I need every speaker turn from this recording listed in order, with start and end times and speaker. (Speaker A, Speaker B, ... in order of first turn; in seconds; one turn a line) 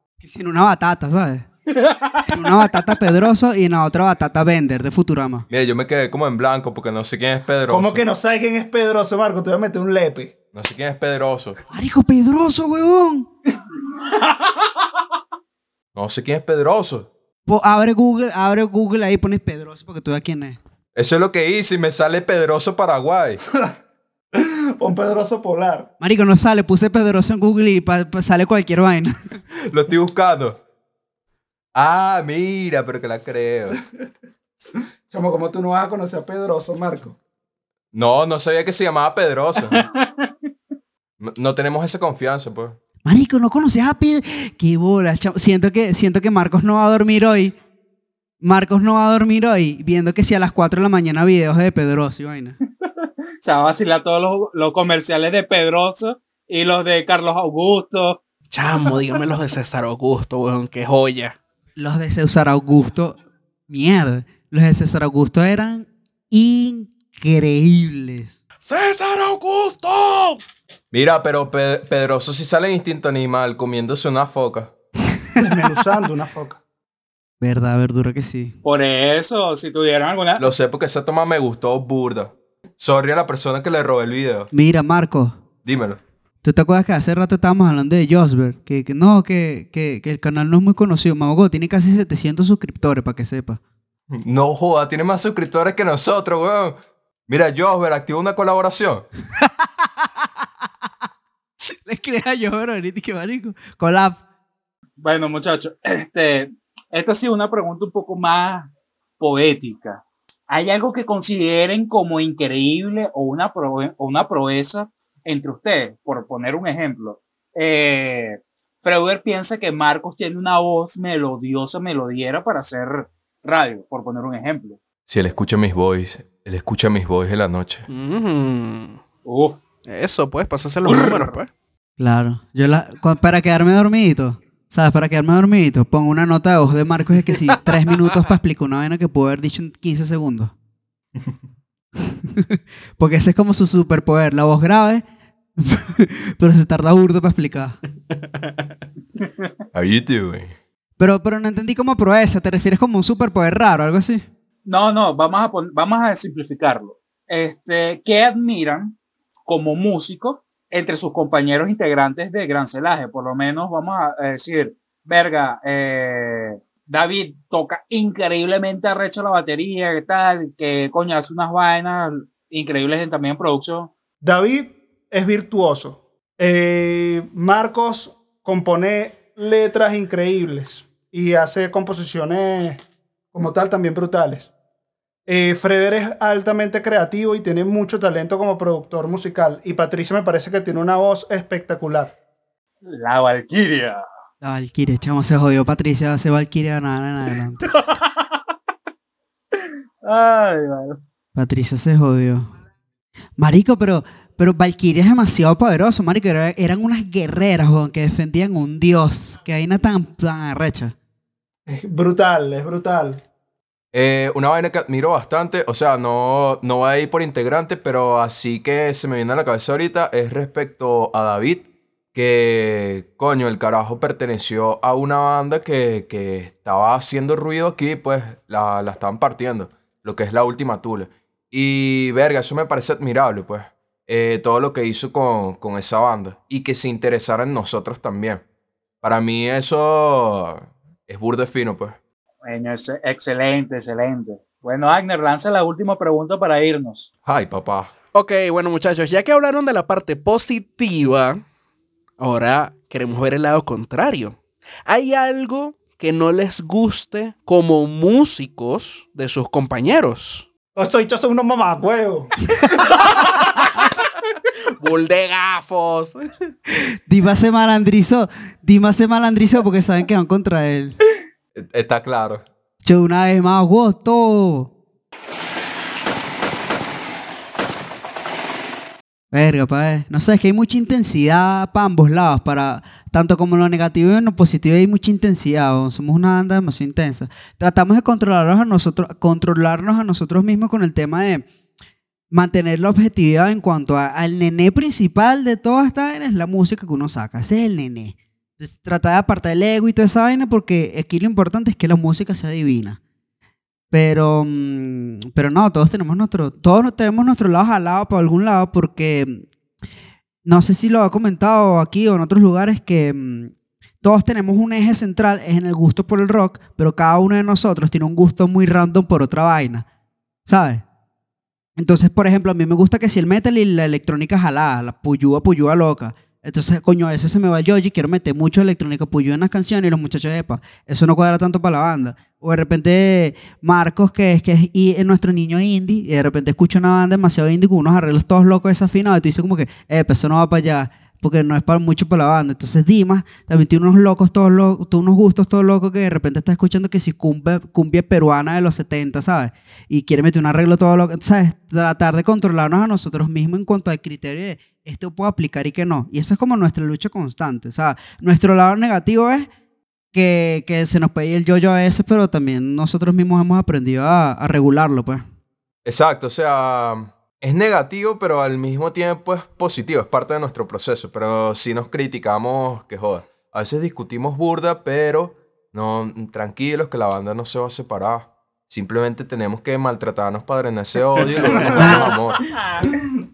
Speaker A: 0.2-1.5
Speaker B: 1.8-2.2
Speaker A: 2.2-5.5
Speaker C: 5.5-8.0
Speaker D: 7.7-10.3
Speaker C: 10.5-11.6
Speaker A: 11.7-13.3
Speaker B: 14.2-14.5
Speaker C: 15.9-17.1
Speaker A: 17.5-20.6
Speaker C: 20.9-23.4
Speaker D: 24.3-25.9
Speaker A: 26.0-29.4
Speaker C: 29.7-30.6
Speaker C: 31.7-33.8
Speaker D: 35.1-37.2
Speaker C: 37.9-39.9
Speaker B: 39.8-40.3
Speaker C: 41.2-42.8
Speaker A: 43.0-47.5
Speaker A: 48.4-52.6
Speaker B: 53.4-58.2
Speaker E: 58.5-61.4
Speaker A: 61.8-63.2
Speaker A: 63.7-68.4
Speaker E: 68.6-70.4
Speaker C: 70.9-74.7
Speaker D: 75.4-76.6
Speaker A: 77.4-78.5
Speaker B: 78.6-80.5
Speaker C: 80.4-84.5
Speaker A: 84.5-85.4
Speaker C: 85.6-86.0
Speaker A: 86.4-93.6
Speaker C: 94.1-99.0
Speaker A: 101.8-104.2
Speaker B: 105.0-124.8
Speaker C: 125.1-127.9
Speaker E: 127.9-129.0
Speaker B: 129.2-129.6
Speaker E: 129.8-131.5
Speaker B: 130.8-131.3
Speaker A: 132.0-140.5
Speaker A: 142.1-145.0
Speaker A: 145.6-147.8
Speaker E: 148.2-148.7
Speaker B: 149.2-149.5
Speaker C: 149.7-150.5
Speaker A: 151.0-154.2
Speaker B: 154.6-173.9
Speaker D: 174.2-182.8
Speaker D: 183.3-184.5
Speaker D: 185.3-192.1
Speaker B: 192.8-194.0
Speaker A: 194.4-197.7
Speaker B: 197.7-198.3
Speaker B: 199.5-201.0
Speaker A: 201.3-202.5
Speaker A: 203.4-210.9
Speaker D: 211.7-213.2
Speaker C: 213.9-238.4
Speaker C: 239.0-242.0
Speaker B: 242.4-247.1
Speaker C: 247.2-247.9
Speaker E: 248.1-251.4
Speaker E: 252.2-260.4
Speaker D: 260.8-262.3
Speaker E: 264.8-266.5
Speaker A: 267.1-270.9
Speaker C: 271.5-272.4
Speaker A: 272.8-274.7
Speaker A: 279.3-291.5
Speaker A: 292.3-303.0
Speaker A: 303.9-309.5
Speaker A: 310.4-319.8
Speaker A: 320.5-320.8
Speaker A: 321.8-359.5
Speaker A: 360.1-365.2
Speaker C: 365.8-382.5
Speaker D: 381.6-382.1
Speaker A: 381.7-382.1